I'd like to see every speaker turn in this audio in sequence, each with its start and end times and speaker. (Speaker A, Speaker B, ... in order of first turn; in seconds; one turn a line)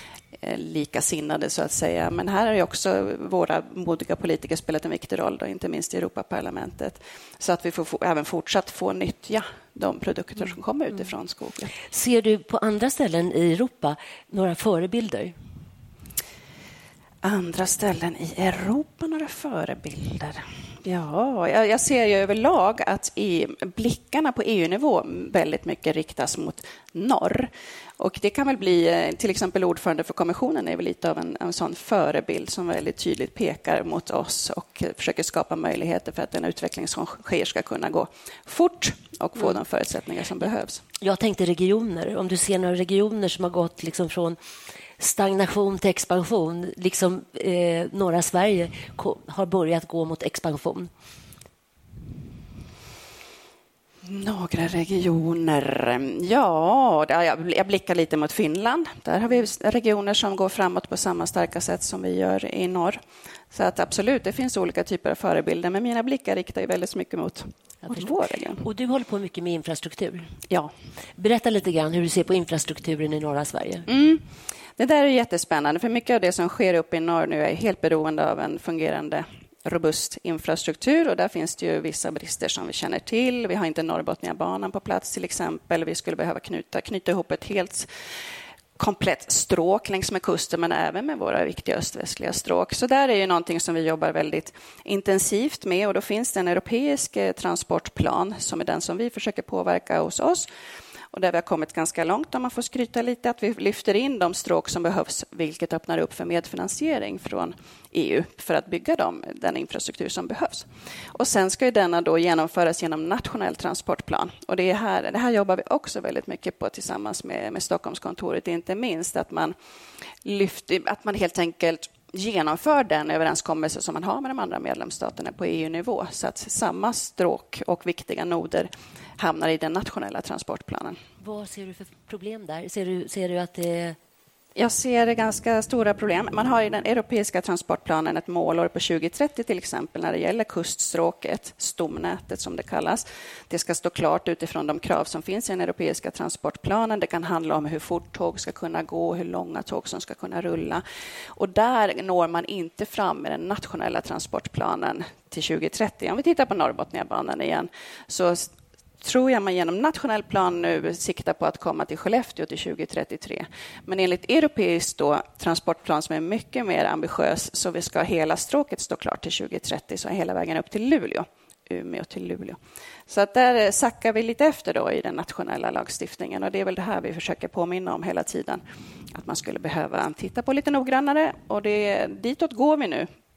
Speaker A: 0.4-11.8
Speaker B: 11.8-15.4
Speaker A: 17.2-40.8
Speaker B: 41.0-44.4
Speaker B: 45.0-50.9
Speaker A: 54.0-63.0
Speaker A: 63.5-68.6
Speaker B: 67.9-70.3
Speaker B: 71.2-73.9
Speaker A: 73.9-74.2
Speaker A: 74.8-87.9
Speaker A: 88.8-100.5
Speaker A: 101.1-119.5
Speaker A: 120.2-131.0
Speaker B: 131.2-134.0
Speaker A: 134.6-150.8
Speaker A: 151.3-178.6
Speaker A: 179.2-183.1